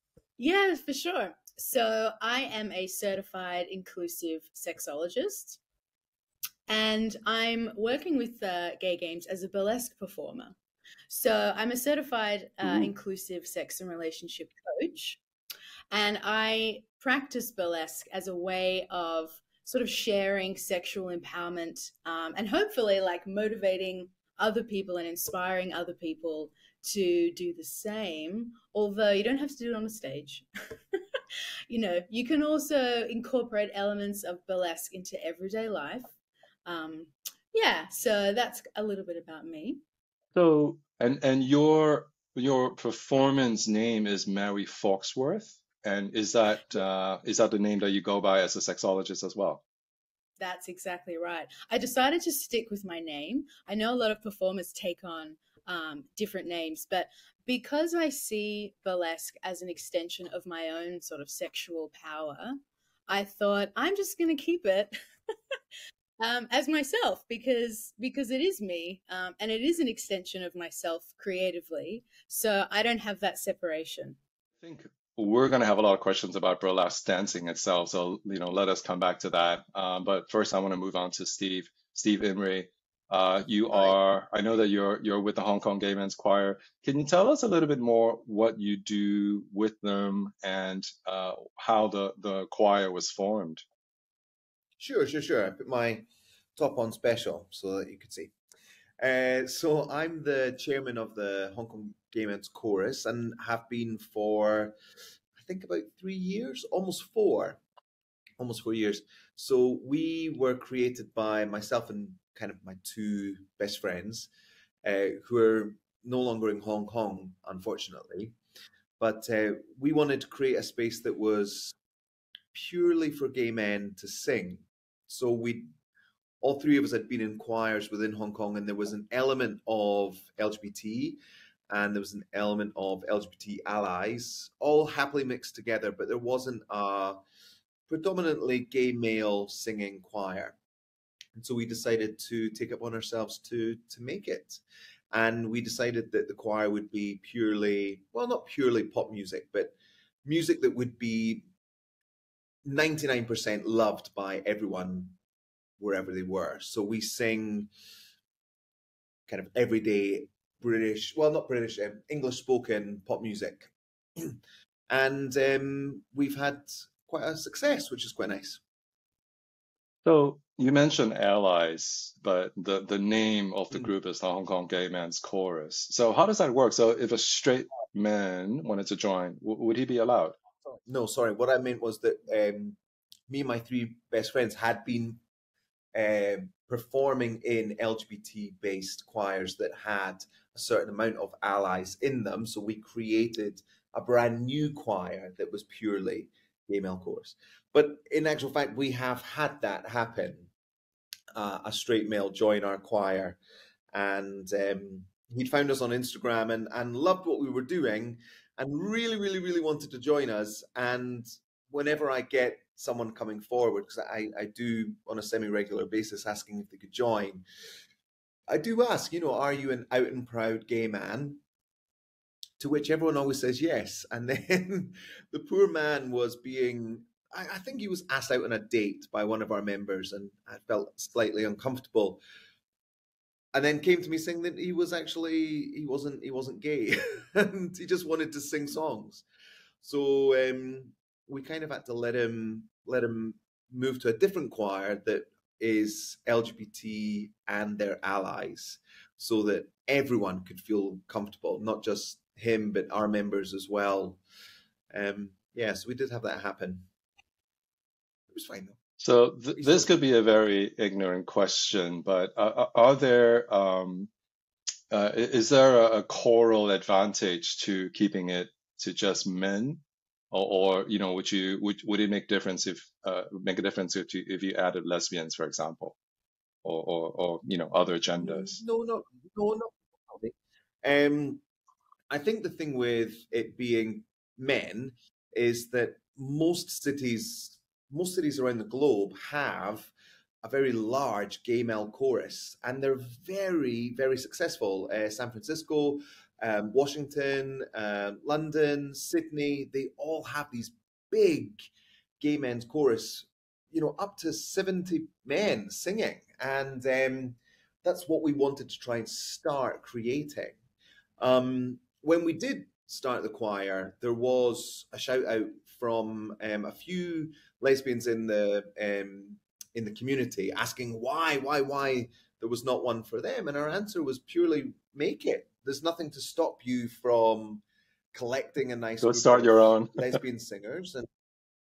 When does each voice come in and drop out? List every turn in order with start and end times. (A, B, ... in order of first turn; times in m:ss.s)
0:00.4-0:05.6 A
0:06.7-0:10.6 A
0:11.1-0:15.2 A
0:12.6-0:12.9 B
0:15.9-0:36.1 A
0:36.7-0:39.8 A
0:40.3-0:49.6 B
0:50.4-1:04.9 A
1:06.2-1:14.2 A
1:14.6-1:33.6 B
1:34.8-1:38.3 C
1:39.0-1:44.7 C
1:45.4-1:47.6 C
1:48.4-1:54.3 C
1:54.8-1:58.4 C
1:59.0-2:01.8 C
2:02.5-2:05.7 C
2:06.4-2:11.2 C
2:11.7-2:17.2 C
2:17.9-2:20.6 C
2:21.4-2:31.5 C
2:32.6-2:35.2 C
2:35.8-2:37.7 C
2:39.3-2:44.4 C
2:44.9-2:48.6 C
2:50.0-3:00.4 B
3:00.9-3:02.8 C
3:03.3-3:05.2 C
3:05.9-3:20.5 C
3:21.3-3:23.4 C
3:23.9-3:37.4 C
3:38.5-3:41.4 C
3:42.6-3:52.2 C
3:53.5-3:59.2 C
3:59.8-4:14.2 C
4:14.9-4:16.9 C
4:18.3-4:18.8 C
4:19.0-4:24.1 B
4:19.6-4:19.9 C
4:24.9-4:36.0 B
4:36.6-4:38.6 B
4:38.2-4:41.4 C
4:42.1-4:49.9 C
4:50.4-5:01.7 C
5:02.2-5:10.6 C
5:11.2-5:31.1 C
5:29.0-5:30.2 B